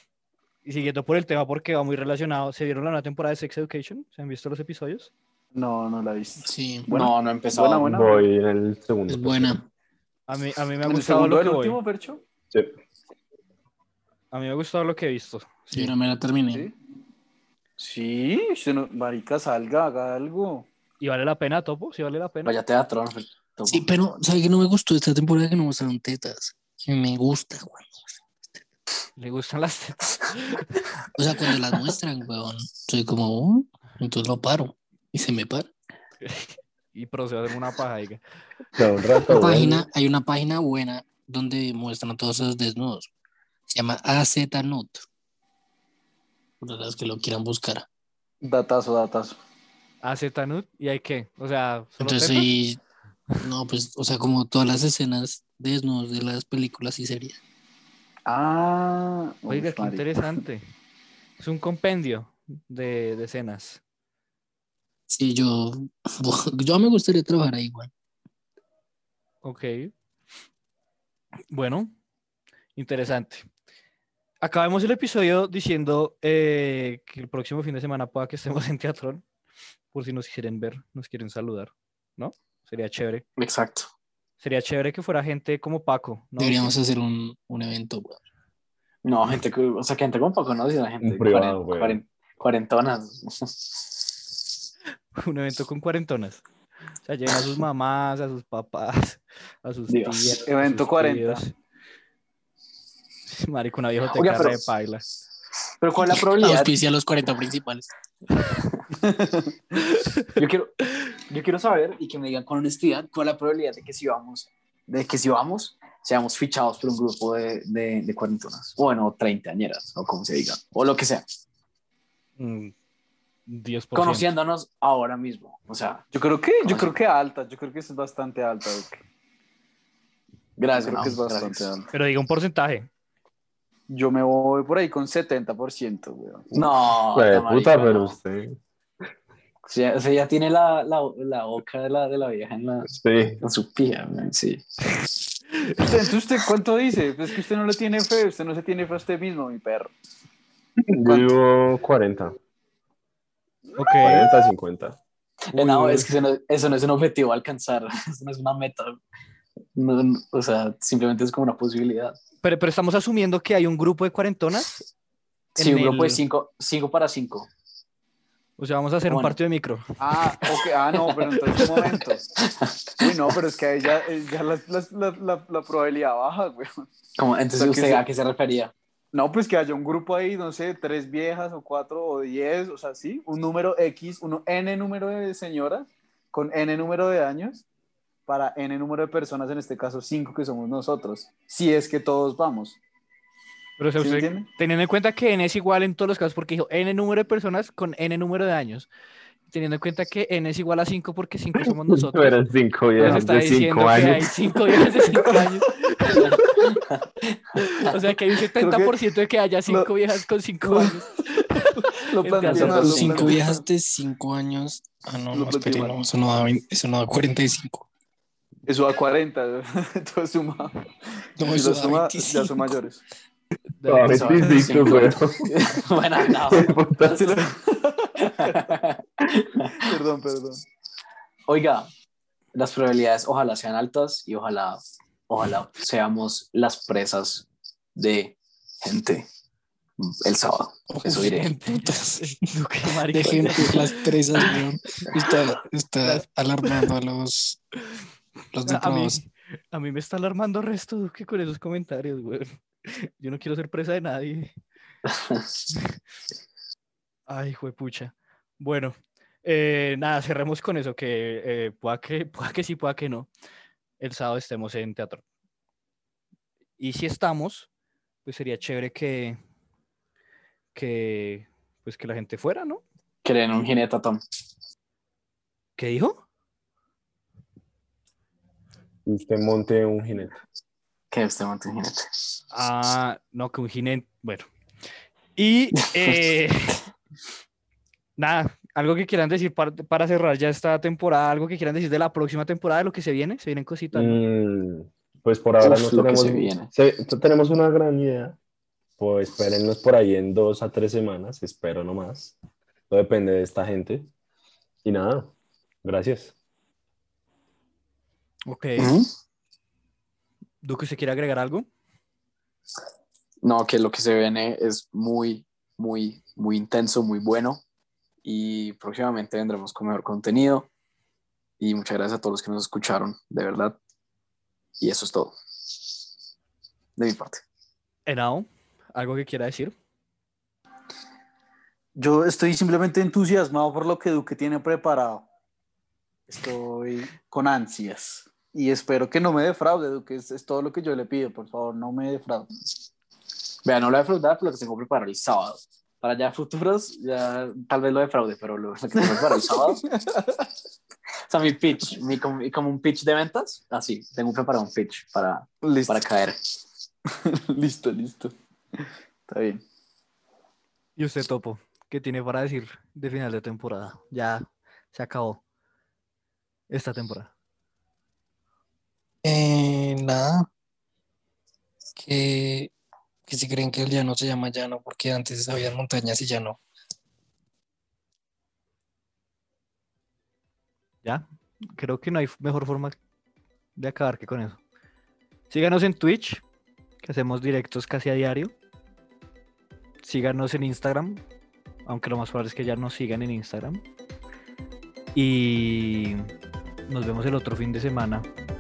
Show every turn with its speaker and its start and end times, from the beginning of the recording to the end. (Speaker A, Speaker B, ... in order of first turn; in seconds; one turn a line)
Speaker A: 0.7-5.1
Speaker B: 5.5-8.3
Speaker C: 6.5-6.9
Speaker D: 6.9-7.9
Speaker E: 7.8-9.6
Speaker C: 9.1-9.7
Speaker A: 10.3-11.8
Speaker B: 10.8-12.2
Speaker A: 14.3-15.9
Speaker C: 15.7-16.7
Speaker B: 17.8-20.7
Speaker A: 21.0-22.6
Speaker D: 22.4-23.9
Speaker C: 23.7-28.0
Speaker A: 29.2-30.9
Speaker C: 31.1-35.7
Speaker A: 36.2-38.2
Speaker E: 38.8-39.9
Speaker C: 39.3-43.1
Speaker C: 43.7-45.0
Speaker C: 46.6-47.9
Speaker B: 48.4-49.4
Speaker A: 50.0-52.5
Speaker C: 52.0-52.8
Speaker C: 53.4-57.4
Speaker B: 58.3-60.0
Speaker A: 59.5-60.6
Speaker A: 61.4-63.8
Speaker C: 65.1-67.9
Speaker A: 69.4-69.9
Speaker A: 71.5-71.9
Speaker A: 72.8-73.5
Speaker A: 74.4-79.2
Speaker A: 79.9-83.2
Speaker D: 83.4-83.9
Speaker A: 84.4-86.7
Speaker C: 86.4-88.2
Speaker D: 89.0-93.8
Speaker E: 91.0-92.0
Speaker A: 95.2-96.4
Speaker A: 97.0-101.5
Speaker D: 99.9-100.3
Speaker B: 100.4-101.4
Speaker A: 103.3-105.0
Speaker D: 104.1-104.6
Speaker D: 105.8-106.7
Speaker C: 106.1-107.9
Speaker B: 108.9-109.5
Speaker A: 109.9-110.3
Speaker D: 110.4-121.3
Speaker A: 122.4-122.7
Speaker A: 123.5-124.3
Speaker D: 123.9-126.0
Speaker B: 126.1-129.0
Speaker D: 126.6-127.0
Speaker D: 130.6-131.9
Speaker B: 130.7-131.8
Speaker A: 131.9-132.9
Speaker B: 133.9-136.5
Speaker D: 136.5-138.2
Speaker E: 136.5-138.6
Speaker D: 139.7-144.6
Speaker E: 142.9-143.4
Speaker A: 145.6-145.9
Speaker B: 145.8-149.9
Speaker E: 150.9-152.3
Speaker B: 151.0-151.3
Speaker A: 153.8-154.3
Speaker E: 154.0-155.0
Speaker D: 155.5-159.0
Speaker A: 155.6-156.1
Speaker D: 159.8-162.2
Speaker A: 162.4-164.9
Speaker D: 165.6-167.5
Speaker A: 165.6-166.2
Speaker A: 168.6-169.8
Speaker D: 169.1-169.4
Speaker B: 170.0-172.2
Speaker D: 170.5-173.3
Speaker B: 173.0-176.9
Speaker D: 177.2-178.7
Speaker B: 177.6-178.0
Speaker B: 179.1-187.7
Speaker B: 188.3-192.8
Speaker A: 193.8-198.9
Speaker B: 194.0-194.5
Speaker A: 199.5-202.4
Speaker E: 201.9-204.3
Speaker A: 203.0-206.4
Speaker B: 205.1-205.6
Speaker D: 206.1-207.4
Speaker A: 207.6-213.4
Speaker B: 208.6-209.0
Speaker B: 210.7-211.1
Speaker B: 211.9-213.6
Speaker C: 212.5-217.9
Speaker B: 215.3-216.0
Speaker B: 218.7-220.8
Speaker C: 221.4-222.8
Speaker B: 221.5-223.0
Speaker A: 223.8-224.8
Speaker E: 223.8-225.6
Speaker D: 224.1-226.8
Speaker E: 226.5-227.3
Speaker B: 227.1-228.6
Speaker D: 228.2-229.9
Speaker B: 229.7-230.6
Speaker D: 231.5-231.9
Speaker D: 232.5-239.3
Speaker D: 240.0-241.5
Speaker C: 240.9-242.4
Speaker A: 241.1-244.6
Speaker C: 243.1-247.6
Speaker D: 243.3-243.7
Speaker A: 246.0-246.9
Speaker C: 248.5-249.2
Speaker A: 248.7-254.5
Speaker D: 255.1-255.5
Speaker A: 257.3-263.3
Speaker A: 264.0-265.2
Speaker A: 266.8-267.7
Speaker A: 268.2-269.4
Speaker A: 270.8-272.8
Speaker D: 273.2-274.2
Speaker A: 275.8-276.2
Speaker E: 279.1-280.4
Speaker D: 281.1-282.2
Speaker A: 282.5-284.5
Speaker A: 285.4-286.8
Speaker A: 288.2-294.2
Speaker E: 293.9-298.4
Speaker D: 295.6-296.7
Speaker E: 299.0-302.4
Speaker E: 302.9-304.1
Speaker E: 304.8-306.3
Speaker A: 308.5-309.0
Speaker D: 308.8-309.1
Speaker A: 310.6-311.7
Speaker D: 313.4-317.6
Speaker D: 318.2-320.7
Speaker D: 321.6-323.8
Speaker D: 324.8-325.4
Speaker D: 327.0-327.4
Speaker A: 328.1-329.7
Speaker B: 332.0-335.3
Speaker B: 336.3-342.5
Speaker D: 343.6-349.8
Speaker B: 349.1-350.5
Speaker D: 351.3-356.4
Speaker B: 355.6-356.0
Speaker B: 357.3-359.6
Speaker A: 361.0-365.4
Speaker A: 366.7-367.3
Speaker C: 369.2-370.5
Speaker C: 372.0-372.7
Speaker C: 373.3-376.6
Speaker A: 381.0-383.0
Speaker A: 383.8-384.6
Speaker A: 385.5-386.4
Speaker A: 387.0-388.5
Speaker A: 390.0-391.2
Speaker A: 391.9-393.8
Speaker A: 395.1-396.3
Speaker A: 396.9-398.3